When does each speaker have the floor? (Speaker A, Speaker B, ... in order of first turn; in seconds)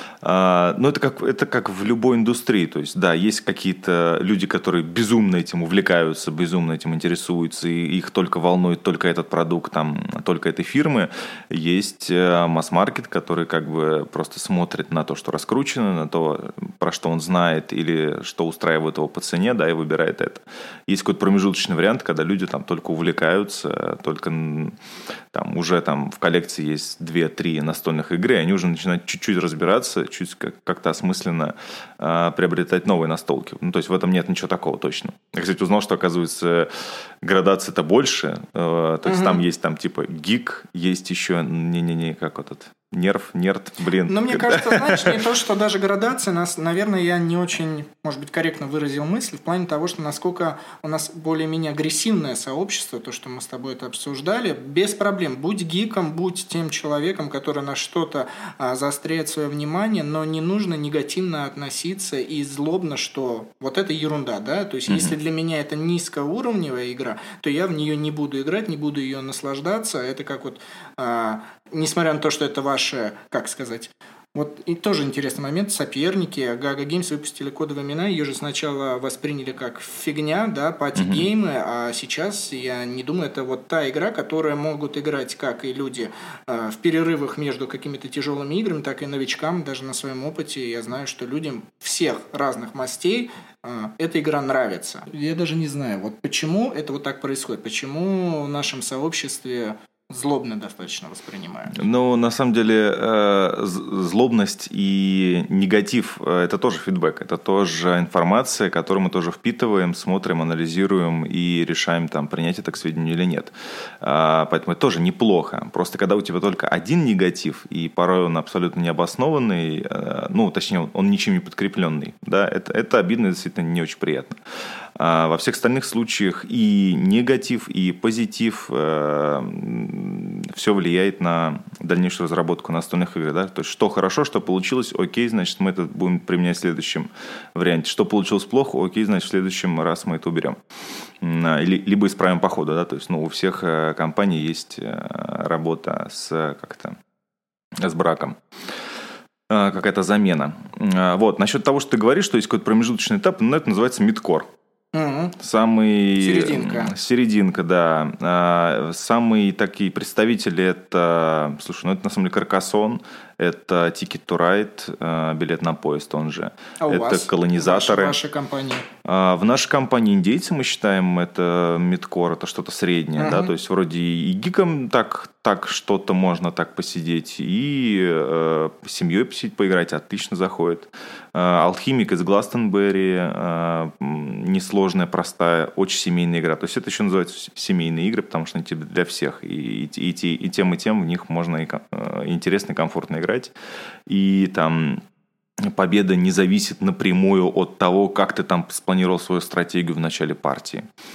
Speaker A: 0.2-24.7, 25.3-45.3, 64.9-65.1, 81.0-81.2, 101.7-124.4, 125.0-140.6, 141.2-147.0, 147.8-148.4, 149.5-154.5, 155.4-168.2, 169.0-193.5, 194.1-195.0, 195.6-200.9
Speaker B: 39.0-39.4, 44.0-101.8, 154.9-155.4, 156.2-156.9, 166.8-168.9, 173.2-173.5